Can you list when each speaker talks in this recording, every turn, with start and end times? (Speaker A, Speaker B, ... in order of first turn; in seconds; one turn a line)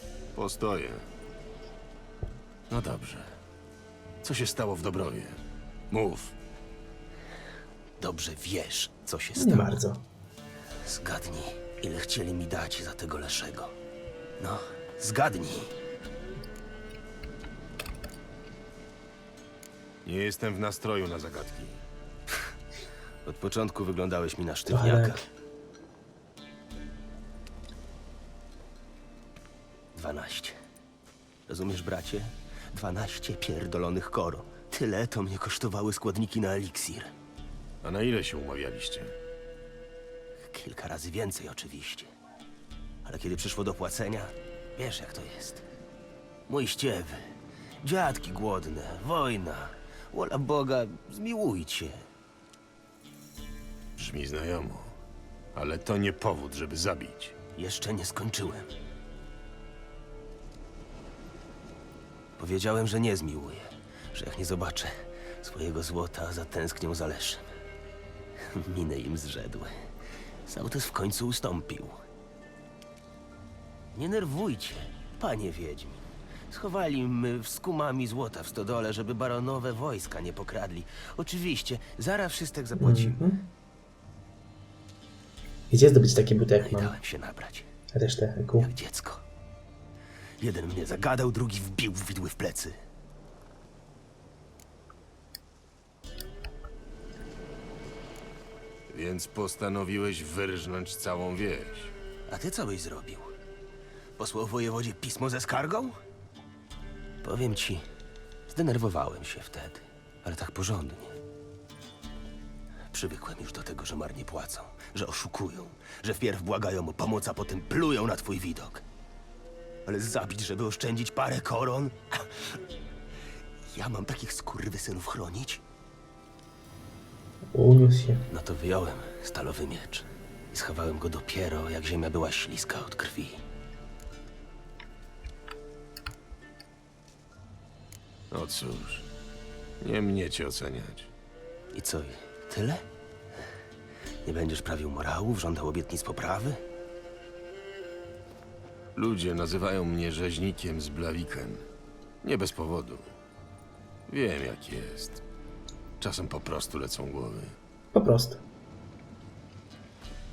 Speaker A: 0.3-1.1
Speaker A: 2.7-3.4
Speaker A: 4.2-6.3
Speaker B: 8.0-9.7
Speaker C: 9.4-10.1
Speaker B: 10.8-13.7
Speaker B: 14.4-15.8
Speaker A: 20.1-21.8
Speaker B: 23.2-25.2
Speaker C: 24.7-25.2
Speaker B: 29.9-30.6
Speaker B: 31.5-37.1
Speaker A: 37.8-39.2
Speaker B: 40.4-42.1
Speaker B: 43.0-45.6
Speaker B: 46.5-52.1
Speaker A: 54.0-55.0
Speaker A: 55.5-57.4
Speaker B: 57.6-58.7
Speaker B: 62.4-67.5
Speaker B: 68.5-69.9
Speaker B: 70.5-72.0
Speaker B: 73.9-83.2
Speaker C: 82.8-83.5
Speaker C: 85.7-86.9
Speaker B: 86.6-87.7
Speaker C: 87.9-88.7
Speaker B: 88.6-89.2
Speaker B: 90.4-92.8
Speaker A: 98.9-102.0
Speaker B: 102.3-103.3
Speaker B: 104.2-106.0
Speaker B: 107.2-107.8
Speaker B: 108.5-111.2
Speaker B: 112.9-118.8
Speaker B: 119.9-122.6
Speaker B: 123.7-125.6
Speaker C: 127.5-128.2
Speaker B: 128.3-133.4
Speaker A: 138.3-139.1
Speaker A: 139.8-141.1
Speaker B: 141.7-142.8
Speaker B: 144.2-146.6
Speaker A: 148.9-151.7
Speaker A: 152.2-153.1
Speaker A: 154.1-155.2
Speaker A: 156.0-157.6
Speaker C: 157.9-158.4